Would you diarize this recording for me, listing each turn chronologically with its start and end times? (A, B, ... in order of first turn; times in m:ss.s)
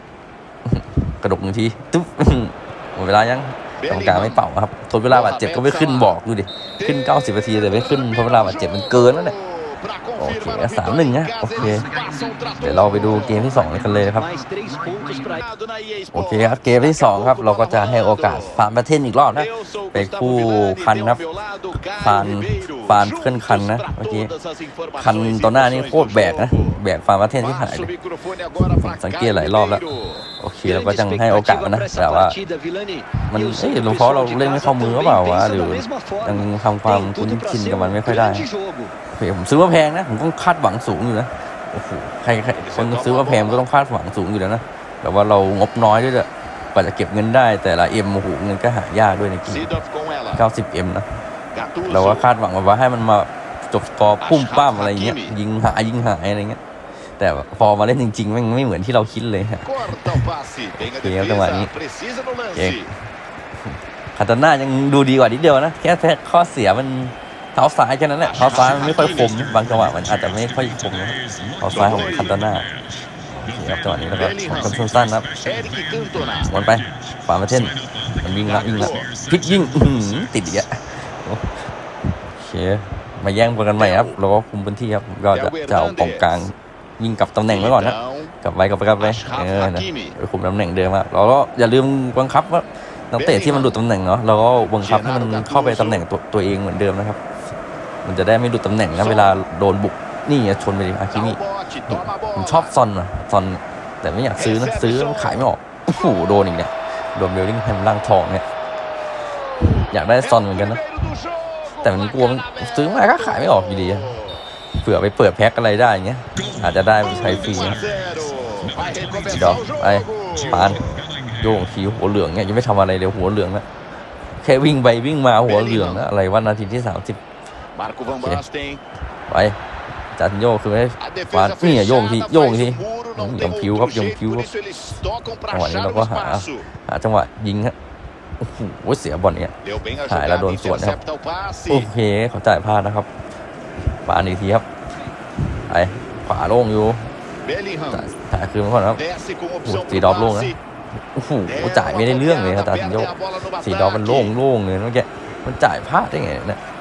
0:00.7-0:09.4 A
0:03.8-0:04.4 B
0:05.1-0:06.2 B
0:06.8-0:13.8 B
0:10.2-0:11.9 A
0:12.6-0:14.3 A
0:13.2-0:15.5 C
0:15.2-0:18.6 B
0:16.1-0:21.2 A
0:19.3-0:26.8 B
0:21.9-0:24.3 A
0:25.0-0:27.9 A
0:27.4-0:30.3 B
0:28.8-0:29.8 A
0:30.4-0:32.4 A
0:30.6-0:39.0 C
0:33.2-0:38.5 A
0:39.1-0:49.7 A
0:42.6-0:43.6 B
0:49.5-0:50.5 B
0:50.4-0:51.1 A
0:51.5-0:52.3 B
0:51.9-0:56.6 A
0:54.2-0:55.4 B
0:57.2-1:00.3 A
0:59.6-1:02.9 B
1:00.8-1:01.7 A
1:02.6-1:02.8 A
1:04.2-1:12.7 A
1:08.2-1:09.5 B
1:11.7-1:12.4 B
1:13.4-1:15.4 A
1:14.1-1:14.8 B
1:15.3-1:16.6 B
1:16.4-1:21.7 A
1:18.4-1:19.1 B
1:22.2-1:37.2 A
1:23.8-1:24.2 B
1:25.3-1:26.4 B
1:27.5-1:28.3 B
1:29.0-1:30.2 B
1:33.2-1:33.8 B
1:34.8-1:36.0 B
1:38.0-1:48.5 A
1:38.9-1:39.4 B
1:41.1-1:42.7 B
1:44.4-1:46.5 B
1:49.2-1:54.4 B
1:49.9-1:50.8 A
1:51.8-1:54.2 A
1:54.7-1:57.9 A
1:57.0-2:01.1 B
1:59.2-2:03.6 A
2:04.4-2:07.2 A
2:05.4-2:06.1 B
2:07.8-2:08.8 B
2:09.3-2:09.6 A
2:10.1-2:14.5 A
2:11.0-2:16.7 B
2:15.5-2:17.8 A
2:18.4-2:19.5 A
2:19.6-2:21.9 B
2:20.1-2:21.0 A
2:21.7-2:23.1 A
2:24.1-2:24.7 A
2:25.7-2:27.1 A
2:27.4-2:28.1 B
2:27.9-2:29.0 A
2:29.0-2:30.6 B
2:29.6-2:30.6 A
2:31.2-2:36.6 A
2:31.5-2:34.4 B